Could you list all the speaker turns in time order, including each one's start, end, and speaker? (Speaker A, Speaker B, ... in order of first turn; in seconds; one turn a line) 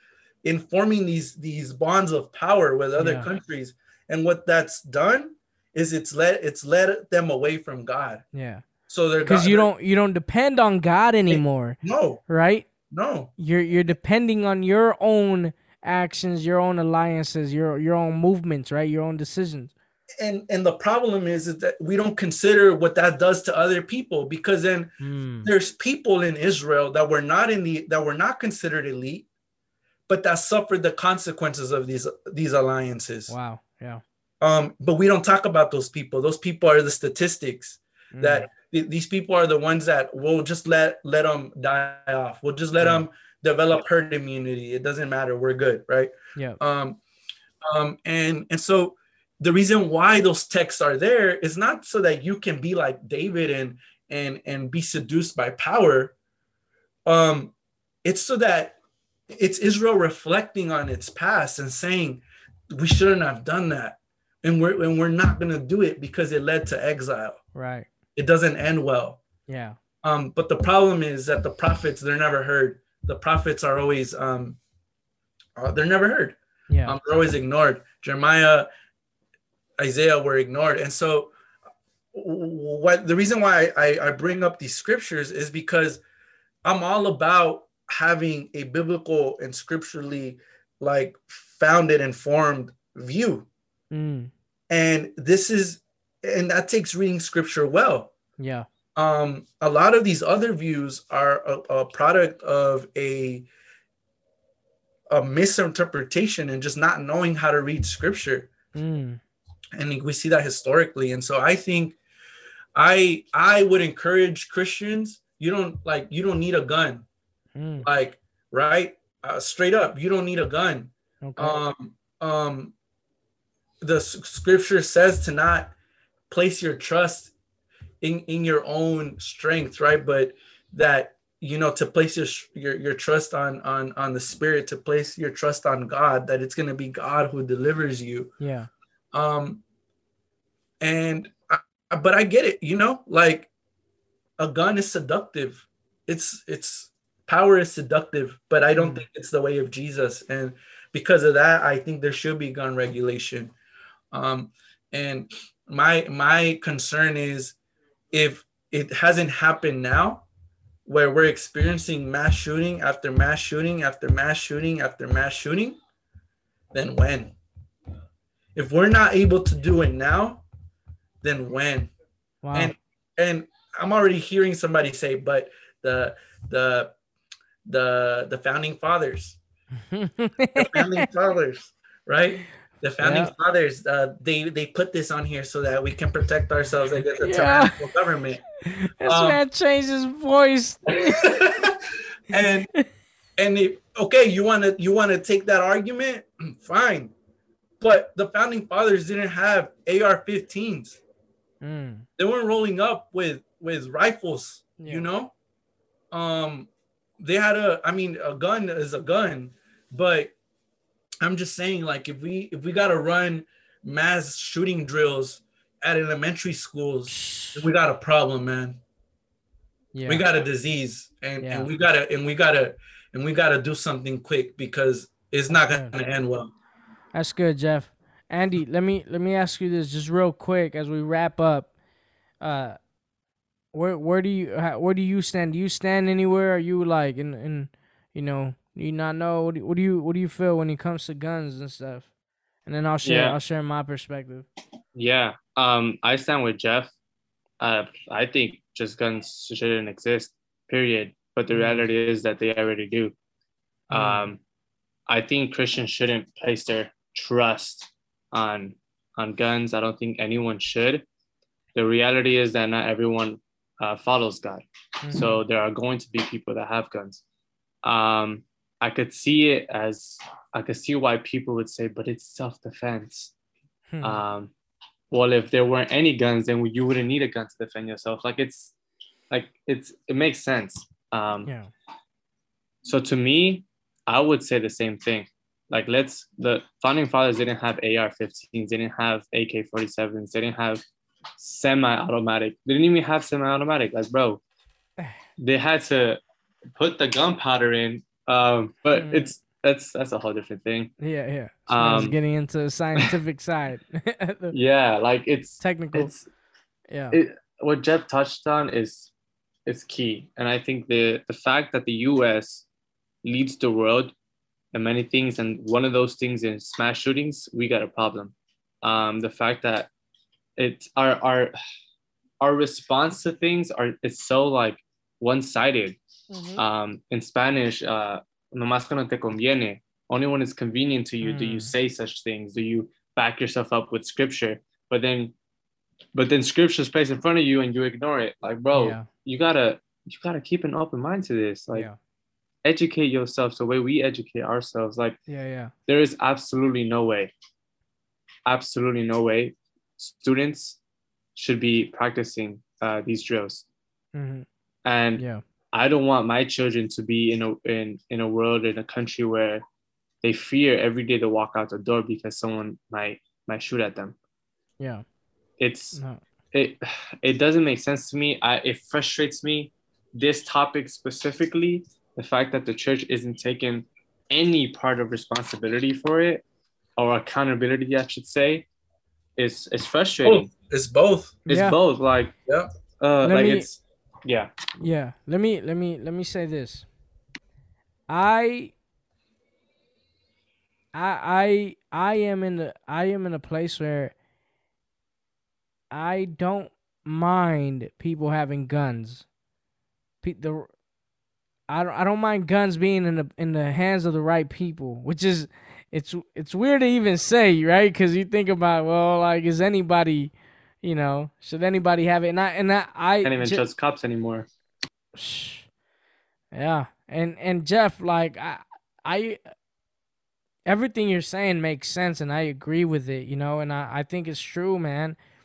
Speaker A: 0.4-8.2
Speaker B: 3.0-3.3
Speaker B: 8.3-8.6
Speaker A: 8.9-9.7
Speaker B: 9.2-12.7
Speaker A: 11.3-12.2
Speaker A: 12.9-13.3
Speaker B: 13.4-19.7
Speaker A: 20.2-29.3
Speaker B: 25.0-25.5
Speaker A: 30.1-33.3
Speaker B: 33.3-34.0
Speaker A: 34.4-47.0
Speaker B: 38.1-38.5
Speaker B: 42.8-43.0
Speaker A: 47.6-56.1
Speaker A: 57.1-58.8
Speaker A: 59.3-67.4
Speaker B: 67.5-67.9
Speaker A: 68.2-69.2
Speaker B: 69.5-69.8
Speaker A: 70.0-74.6
Speaker A: 75.6-78.7
Speaker B: 76.7-77.0
Speaker A: 79.8-81.3
Speaker A: 82.1-86.0
Speaker A: 86.7-93.5
Speaker B: 93.9-94.3
Speaker A: 94.7-98.1
Speaker B: 98.4-98.7
Speaker A: 99.0-103.5
Speaker A: 105.1-108.5
Speaker B: 108.8-109.2
Speaker A: 109.8-112.0
Speaker A: 112.8-117.1
Speaker B: 117.6-117.9
Speaker A: 117.8-122.7
Speaker B: 121.2-121.6
Speaker A: 123.8-125.7
Speaker A: 126.3-127.3
Speaker A: 128.0-138.3
Speaker B: 138.4-138.7
Speaker A: 139.1-139.6
Speaker A: 140.8-143.5
Speaker A: 144.4-153.5
Speaker B: 148.8-149.1
Speaker A: 154.1-157.6
Speaker A: 158.1-160.2
Speaker A: 160.9-165.8
Speaker A: 166.7-167.4
Speaker A: 168.6-170.4
Speaker A: 171.2-171.9
Speaker B: 172.4-172.7
Speaker A: 172.5-176.9
Speaker A: 177.7-179.4
Speaker B: 179.9-181.1
Speaker A: 180.6-188.5
Speaker B: 183.0-183.3
Speaker B: 187.2-187.8
Speaker B: 188.7-191.3
Speaker A: 189.0-189.4
Speaker A: 190.9-192.7
Speaker A: 193.4-197.1
Speaker A: 197.8-201.0
Speaker B: 201.6-202.1
Speaker A: 202.2-205.3
Speaker B: 204.8-205.1
Speaker A: 206.1-206.7
Speaker A: 207.2-210.3
Speaker A: 211.2-218.8
Speaker B: 217.1-217.7
Speaker B: 219.9-220.2
Speaker A: 220.1-226.5
Speaker B: 221.4-221.7
Speaker B: 225.5-225.9
Speaker B: 227.1-231.7
Speaker B: 232.4-232.8
Speaker B: 233.7-242.1
Speaker B: 242.7-244.5
Speaker C: 243.0-243.4
Speaker C: 244.9-246.9
Speaker C: 247.6-253.2
Speaker B: 251.5-251.8
Speaker B: 253.9-254.2
Speaker C: 253.9-254.4
Speaker C: 255.1-261.1
Speaker C: 261.7-267.2
Speaker B: 265.0-265.4
Speaker C: 267.8-273.3
Speaker B: 273.9-274.2
Speaker C: 274.0-274.5
Speaker C: 275.1-278.8
Speaker C: 279.3-281.5
Speaker B: 281.4-281.7
Speaker C: 282.8-290.8
Speaker C: 291.4-294.4
Speaker C: 295.4-296.2
Speaker C: 296.8-300.9
Speaker B: 298.9-299.3
Speaker B: 301.0-304.6
Speaker C: 301.7-302.2
Speaker C: 304.5-306.3
Speaker B: 305.6-306.1
Speaker B: 306.9-307.2
Speaker C: 307.1-309.1
Speaker C: 309.7-312.7
Speaker C: 313.2-314.1
Speaker C: 314.7-319.9
Speaker C: 320.6-321.5
Speaker C: 322.4-326.0
Speaker B: 326.3-326.6
Speaker C: 326.6-335.3
Speaker B: 331.2-331.7
Speaker C: 336.1-341.9
Speaker B: 338.8-339.1
Speaker C: 342.6-345.2
Speaker B: 345.3-345.7
Speaker C: 345.9-347.3
Speaker C: 348.5-350.8
Speaker C: 351.4-353.7
Speaker B: 354.1-354.5
Speaker C: 354.9-359.6
Speaker C: 360.2-364.2
Speaker C: 365.6-366.0
Speaker B: 365.9-366.2
Speaker C: 366.5-376.4
Speaker C: 377.0-378.7
Speaker C: 379.4-380.5
Speaker A: 380.2-381.4
Speaker B: 381.5-381.8
Speaker C: 381.5-382.3
Speaker C: 383.0-384.9
Speaker B: 383.2-383.7
Speaker B: 384.8-386.9
Speaker B: 388.1-388.7
Speaker B: 390.9-394.1
Speaker B: 395.9-399.3
Speaker B: 400.2-400.7
Speaker B: 401.7-413.6
Speaker C: 413.2-414.5
Speaker B: 415.1-415.7
Speaker B: 416.5-419.4
Speaker B: 420.7-425.2